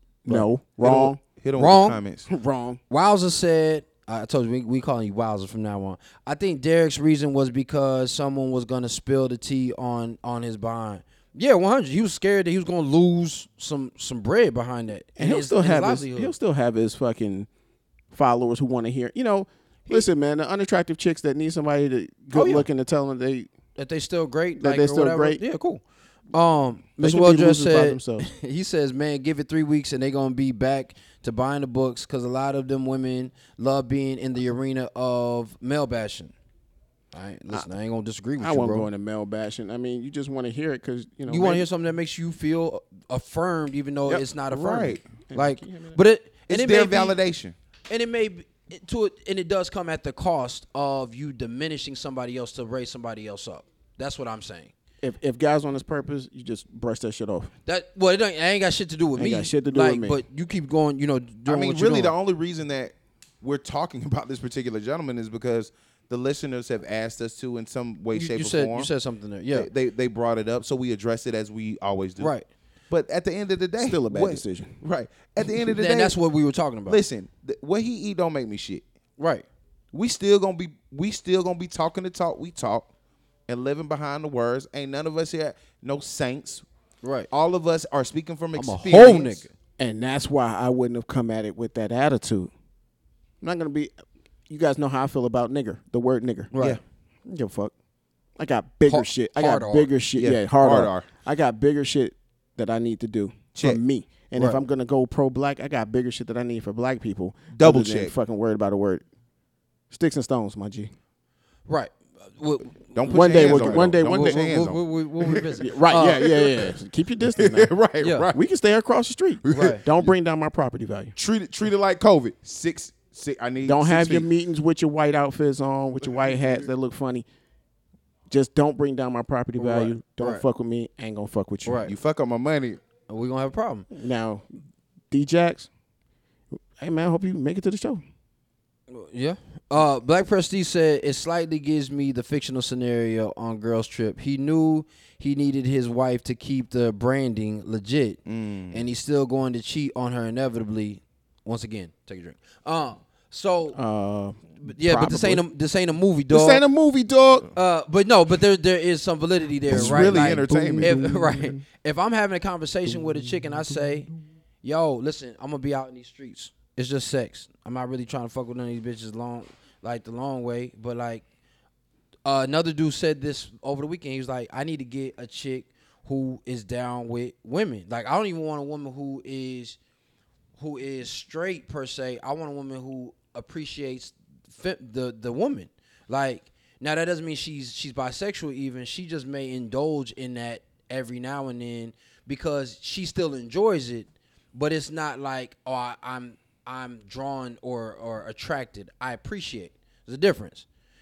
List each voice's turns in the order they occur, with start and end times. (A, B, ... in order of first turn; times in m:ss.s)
0:00.2-0:01.2 A
0:00.3-0:02.3 B
0:01.6-0:02.0 C
0:02.3-0:02.8 A
0:02.9-0:16.3 C
0:15.2-0:17.5 A
0:18.1-0:23.5 A
0:22.3-0:22.7 C
0:23.8-0:36.3 C
0:24.6-0:25.4 A
0:27.0-0:28.3 A
0:37.1-0:38.9 C
0:38.4-0:41.7 A
0:41.3-0:47.2 C
0:44.5-0:45.0 B
0:45.3-0:46.0 A
0:46.5-0:47.6 B
0:47.9-0:54.7 C
0:55.0-0:57.5 A
0:57.7-1:02.1 C
0:59.2-1:00.2 A
1:01.5-1:08.9 B
1:08.1-1:09.7 C
1:09.5-1:12.3 B
1:12.2-1:12.4 C
1:12.9-1:16.2 B
1:13.8-1:14.8 A
1:15.7-1:17.0 C
1:16.9-1:18.8 B
1:19.2-1:19.5 C
1:19.9-1:22.9 B
1:23.5-1:26.6 B
1:27.0-1:27.3 C
1:27.3-1:29.4 B
1:28.6-1:29.5 C
1:29.8-1:32.5 A
1:33.4-1:33.9 A
1:34.5-1:36.5 A
1:36.5-1:36.8 C
1:37.2-1:37.7 A
1:38.4-1:49.0 A
1:38.9-1:39.9 C
1:40.2-1:41.1 B
1:44.4-1:44.6 C
1:47.5-1:48.2 B
1:49.9-1:50.9 A
1:51.7-1:56.7 C
1:52.9-1:54.8 B
1:53.1-1:54.5 A
1:55.5-1:57.7 A
1:57.3-1:58.4 B
1:58.0-1:58.3 C
1:58.3-2:01.1 A
1:59.4-2:00.1 B
1:59.5-1:59.8 C
2:01.2-2:04.3 B
2:03.6-2:07.3 A
2:06.0-2:06.6 B
2:08.3-2:11.8 A
2:09.6-2:10.4 C
2:11.6-2:11.9 C
2:11.8-2:12.8 B
2:13.1-2:13.9 C
2:13.9-2:14.5 A
2:15.1-2:15.7 A
2:16.6-2:18.0 A
2:18.9-2:33.8 C
2:28.3-2:28.8 B
2:33.7-2:35.4 A
2:34.6-2:36.6 C
2:36.3-2:37.5 A
2:37.5-2:44.1 C
2:39.7-2:41.6 A
2:39.7-2:41.2 B
2:44.6-2:51.2 C
2:52.2-2:59.8 C
3:00.6-3:20.7 C